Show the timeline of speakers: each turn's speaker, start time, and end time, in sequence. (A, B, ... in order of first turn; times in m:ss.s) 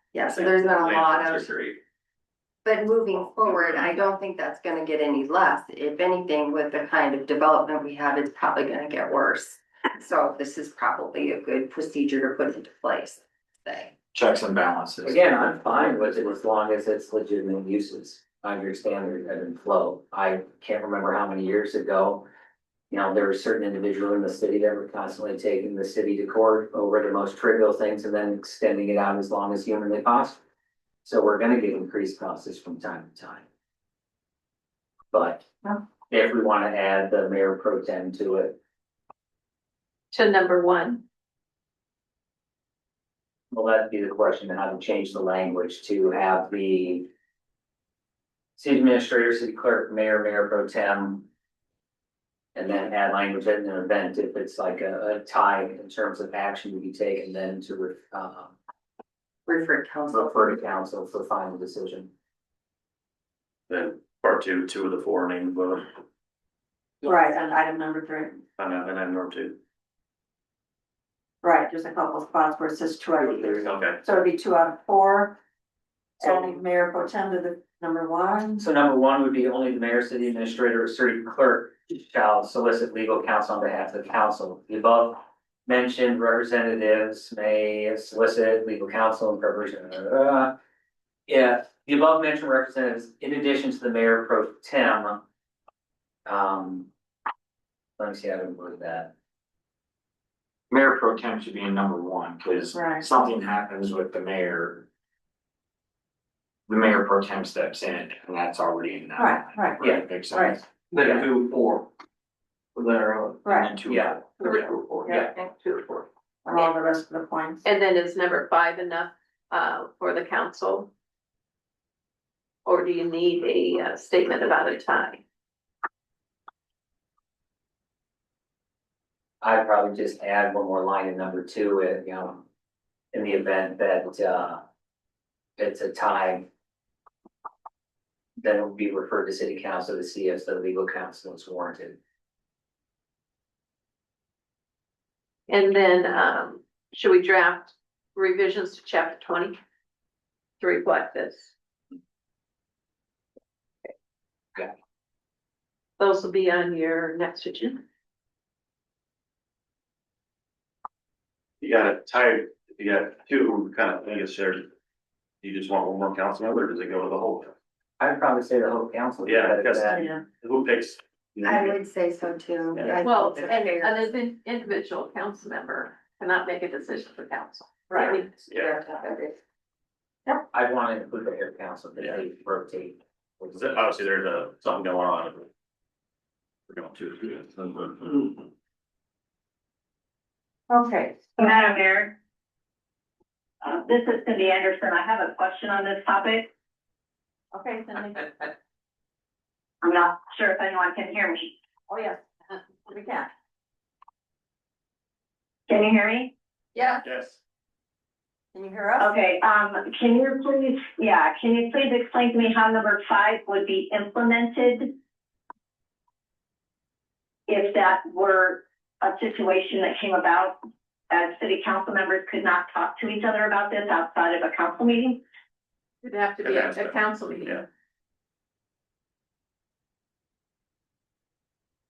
0:00.1-0:01.5 A
0:02.6-0:13.9 A
0:14.1-0:16.1 B
0:15.0-0:22.2 C
0:22.9-0:30.4 C
0:31.0-0:33.5 C
0:35.1-0:38.6 C
0:40.1-0:41.0 D
0:43.5-0:47.1 C
0:48.6-0:51.3 C
0:52.5-0:58.5 C
0:59.5-1:00.6 A
1:00.1-1:02.1 C
1:03.7-1:05.9 E
1:07.0-1:08.4 F
1:08.6-1:09.6 E
1:11.4-1:15.4 F
1:13.3-1:14.0 E
1:16.2-1:18.6 F
1:18.6-1:30.5 C
1:31.3-1:35.2 C
1:36.2-1:36.9 C
1:38.0-1:39.1 C
1:40.7-1:44.8 B
1:42.7-1:43.0 F
1:46.7-1:50.7 B
1:49.2-1:50.6 F
1:49.8-1:50.0 C
1:50.9-1:51.3 C
1:53.4-1:53.7 F
1:53.4-1:54.2 B
1:53.8-1:54.2 C
1:54.4-1:56.6 D
1:55.1-1:55.3 C
1:56.4-1:57.6 F
1:57.6-2:00.9 D
2:02.6-2:05.2 D
2:09.4-2:12.4 C
2:13.1-2:14.6 C
2:15.6-2:16.5 C
2:18.4-2:22.0 C
2:25.5-2:29.6 D
2:30.6-2:31.5 D
2:36.0-2:37.8 D
2:41.6-2:44.7 E
2:45.4-2:47.5 E
2:48.0-2:50.0 C
2:49.2-2:51.8 E
2:49.9-2:50.2 F
2:51.4-2:54.1 A
2:53.0-2:58.3 D
2:57.9-2:58.1 F
2:57.9-2:59.4 A
2:58.5-2:58.7 E
3:00.5-3:03.5 C
3:03.5-3:05.5 E
3:06.7-3:08.4 E
3:10.7-3:11.5 F
3:11.4-3:12.1 G
3:13.6-3:16.5 G
3:17.5-3:18.3 F
3:19.8-3:21.5 G
3:21.9-3:23.3 F
3:25.7-3:26.3 G
3:27.0-3:27.4 E
3:28.5-3:29.1 F
3:29.0-3:34.9 G
3:37.5-3:40.6 G
3:41.1-3:45.2 G
3:46.0-3:47.6 D
3:46.4-3:47.6 E